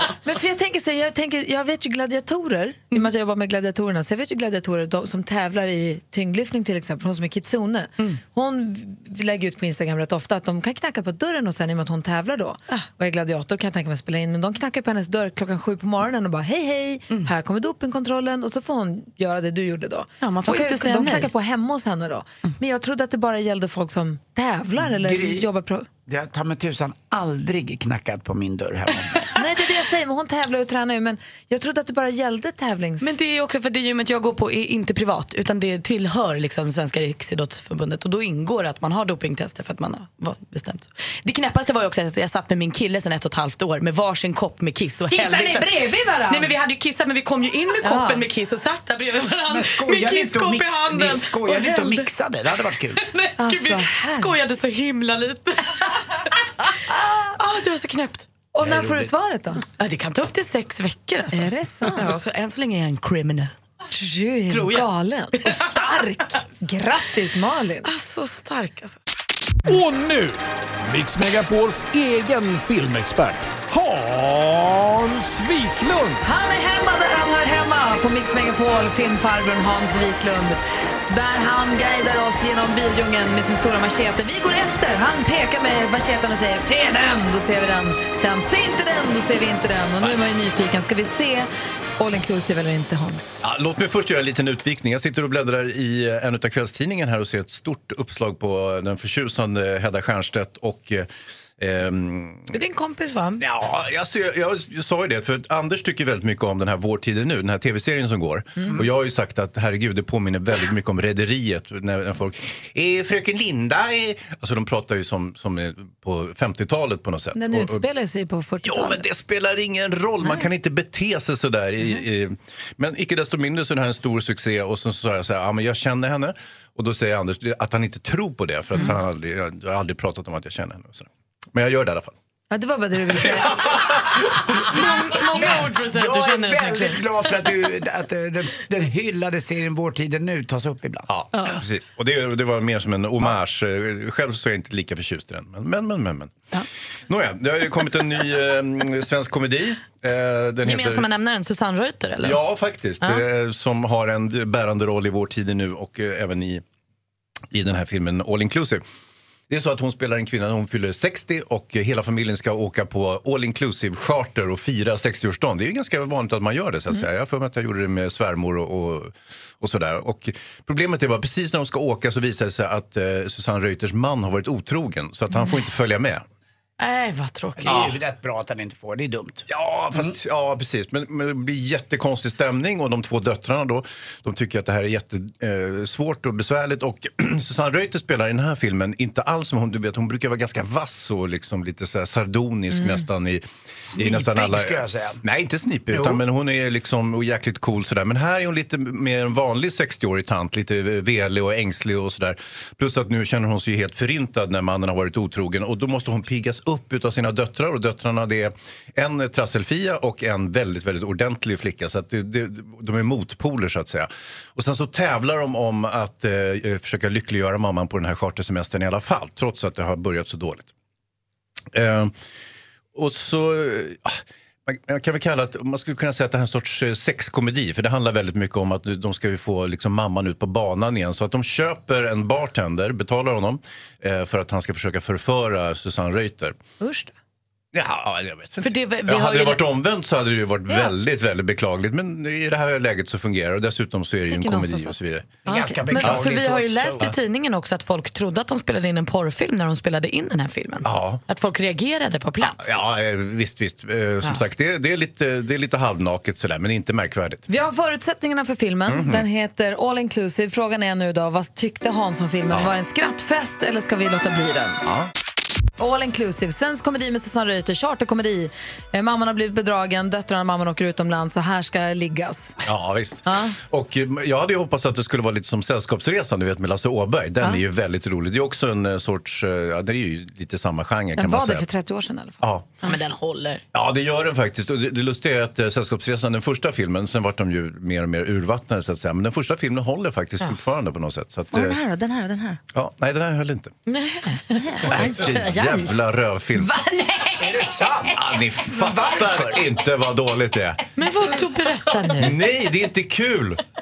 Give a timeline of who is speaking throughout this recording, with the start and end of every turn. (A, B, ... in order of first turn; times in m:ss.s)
0:00.2-0:25.9 A
0:20.2-0:21.3 B
0:24.9-0:25.5 C
0:26.1-0:29.2 C
0:29.3-0:33.1 A
0:33.0-0:52.0 B
0:45.1-0:46.5 A
0:47.8-0:48.2 A
0:49.5-0:53.0 C
0:53.1-0:56.6 B
0:53.4-0:54.3 A
0:57.4-0:58.3 B
0:58.5-0:59.6 A
0:59.8-1:03.5 B
1:01.3-1:02.1 A
1:03.9-1:07.9 A
1:04.5-1:05.9 B
1:07.8-1:09.0 B
1:09.6-1:16.2 D
1:16.2-1:33.4 A
1:33.4-1:42.6 E
1:42.5-1:43.4 B
1:43.4-1:57.8 E
1:57.3-1:59.1 A
1:58.6-2:12.1 E
2:12.5-2:13.8 A
2:13.5-2:14.1 E
2:14.6-2:17.0 B
2:15.4-2:21.1 C
2:21.1-2:26.4 E
2:27.1-2:31.1 E
2:30.6-2:32.4 B
2:32.2-2:36.6 E
2:37.5-2:38.8 E
2:39.5-2:56.2 E
2:56.8-2:57.9 B
2:57.6-3:00.1 C
2:59.5-3:40.7 E
3:13.8-3:15.2 C
3:15.9-3:16.2 C
3:41.7-3:42.1 E
3:42.9-3:56.6 E
3:56.8-3:57.1 A
3:57.7-4:05.4 E
3:58.6-3:59.6 B
4:04.3-4:05.8 A
4:05.4-4:07.1 C
4:05.9-4:12.8 B
4:06.0-4:06.3 E
4:10.8-4:11.2 E
4:12.4-4:17.4 E
4:17.5-4:24.8 A
4:18.9-4:19.2 E
4:25.8-4:32.6 A
4:32.6-4:41.7 E
4:33.2-4:33.5 A
4:41.2-4:42.4 A
4:42.4-4:42.7 E
4:42.8-4:43.6 B
4:43.7-4:51.8 E
4:51.5-4:52.6 A
4:52.7-4:53.7 E
4:53.9-4:54.4 B
4:54.5-4:55.9 A
4:54.8-4:56.7 E
4:56.6-4:57.5 A
4:57.4-4:59.6 C
4:58.2-5:00.8 E
5:01.0-5:02.4 B
5:02.2-5:03.6 E